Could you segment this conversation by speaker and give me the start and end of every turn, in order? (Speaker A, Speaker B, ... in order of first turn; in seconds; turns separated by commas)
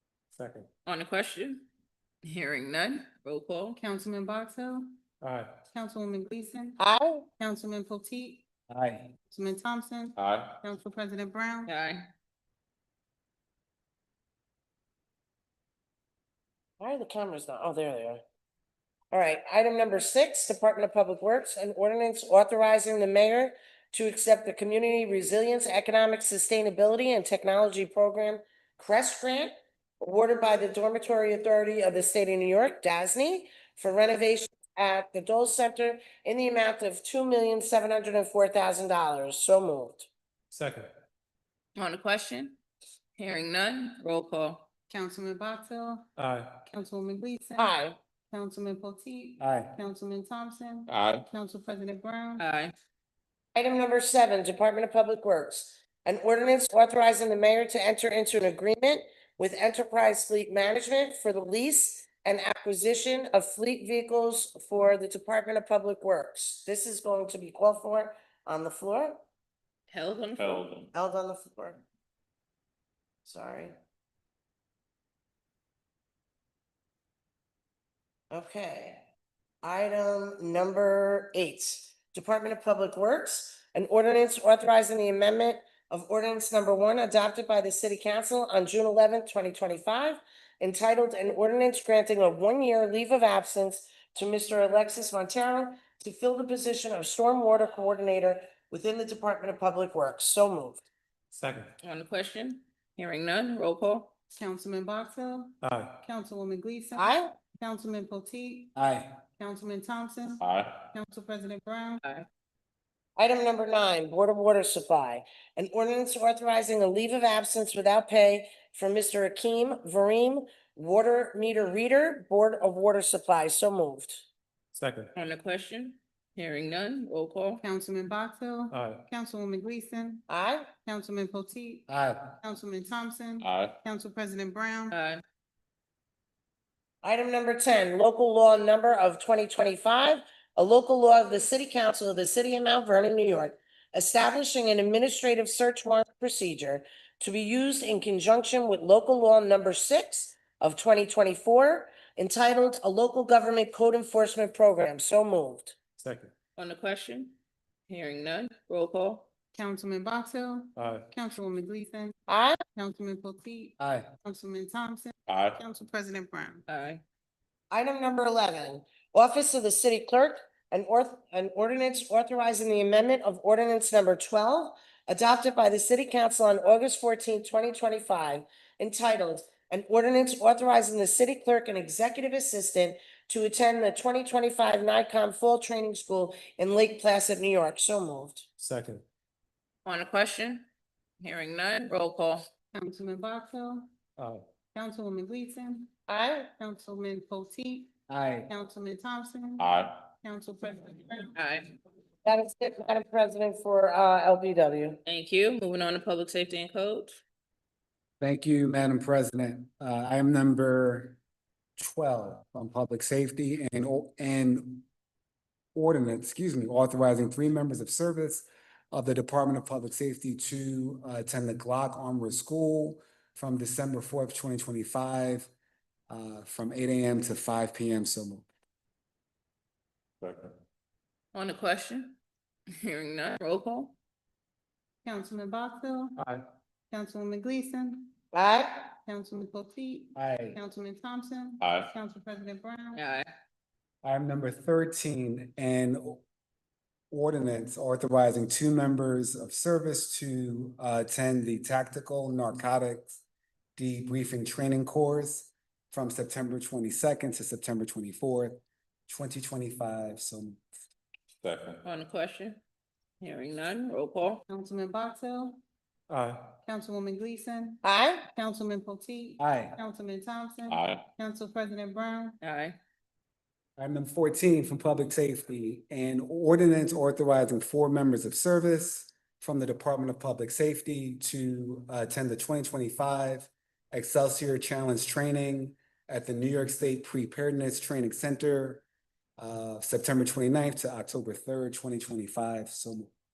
Speaker A: 0.3-0.7, Speaker B: 0.8-1.6, Speaker B: 2.2-3.8, Speaker C: 3.8-4.9, Speaker A: 5.2-5.6, Speaker C: 5.7-6.8, Speaker D: 6.8-7.2, Speaker C: 7.4-8.4, Speaker E: 8.7-9.1, Speaker C: 9.2-11.7, Speaker F: 10.2-10.6, Speaker B: 11.7-12.1, Speaker D: 16.8-18.2, Speaker D: 19.1-40.1, Speaker A: 40.5-40.9, Speaker B: 41.8-42.5, Speaker B: 43.2-44.6, Speaker C: 44.9-46.1, Speaker A: 46.2-46.5, Speaker C: 46.6-47.8, Speaker D: 47.6-48.0, Speaker C: 48.3-52.4, Speaker E: 49.4-49.7, Speaker F: 50.9-51.2, Speaker B: 52.4-52.7, Speaker D: 53.5-69.2, Speaker B: 69.9-70.6, Speaker F: 70.3-70.9, Speaker D: 70.9-71.8, Speaker D: 73.2-73.7, Speaker D: 78.3-79.0, Speaker D: 79.6-100.8, Speaker A: 101.3-101.7, Speaker B: 101.8-104.1, Speaker C: 104.3-108.7, Speaker A: 105.6-106.0, Speaker D: 107.0-107.3, Speaker E: 108.8-109.1, Speaker C: 109.4-112.0, Speaker F: 110.4-110.8, Speaker D: 113.2-124.2, Speaker A: 124.7-125.1, Speaker B: 125.1-127.6, Speaker C: 127.6-130.2, Speaker A: 128.7-129.0, Speaker D: 130.3-130.7, Speaker C: 130.8-134.9, Speaker E: 131.9-132.3, Speaker F: 133.4-133.8, Speaker B: 134.9-135.2, Speaker D: 137.0-155.7, Speaker A: 156.0-156.3, Speaker B: 156.6-157.3, Speaker B: 157.9-159.2, Speaker C: 159.5-162.1, Speaker A: 160.8-161.1, Speaker D: 162.3-162.6, Speaker C: 162.7-166.6, Speaker E: 163.8-164.1, Speaker F: 165.3-165.6, Speaker B: 166.7-167.0, Speaker D: 167.7-188.4, Speaker A: 188.6-189.0, Speaker B: 189.8-190.7, Speaker B: 191.2-192.4, Speaker C: 192.7-193.9, Speaker A: 194.2-194.4, Speaker C: 194.7-195.9, Speaker D: 196.1-196.5, Speaker C: 196.6-197.9, Speaker E: 198.1-198.5, Speaker C: 198.5-199.7, Speaker F: 199.6-200.0, Speaker C: 200.2-201.3, Speaker B: 201.3-201.7, Speaker D: 202.2-205.0, Speaker B: 205.0-207.2, Speaker E: 208.2-211.2, Speaker E: 211.8-214.8, Speaker E: 215.7-225.5, Speaker E: 226.1-228.4, Speaker F: 230.2-230.6, Speaker B: 231.3-232.2, Speaker B: 232.8-233.9, Speaker C: 235.0-236.2, Speaker A: 236.2-236.4, Speaker C: 236.9-238.1, Speaker D: 238.3-238.9, Speaker C: 239.0-243.0, Speaker E: 240.1-240.6, Speaker F: 241.6-241.9, Speaker B: 242.9-243.3, Speaker E: 244.0-246.2, Speaker E: 247.1-253.2, Speaker E: 253.8-260.6, Speaker F: 261.4-261.8, Speaker B: 261.8-262.6, Speaker B: 263.2-264.4, Speaker C: 264.5-265.6, Speaker A: 266.1-266.5, Speaker C: 266.6-272.4, Speaker D: 267.8-268.3, Speaker E: 269.4-269.8, Speaker F: 270.7-271.0, Speaker B: 272.4-272.8, Speaker E: 273.8-288.8, Speaker E: 289.4-293.1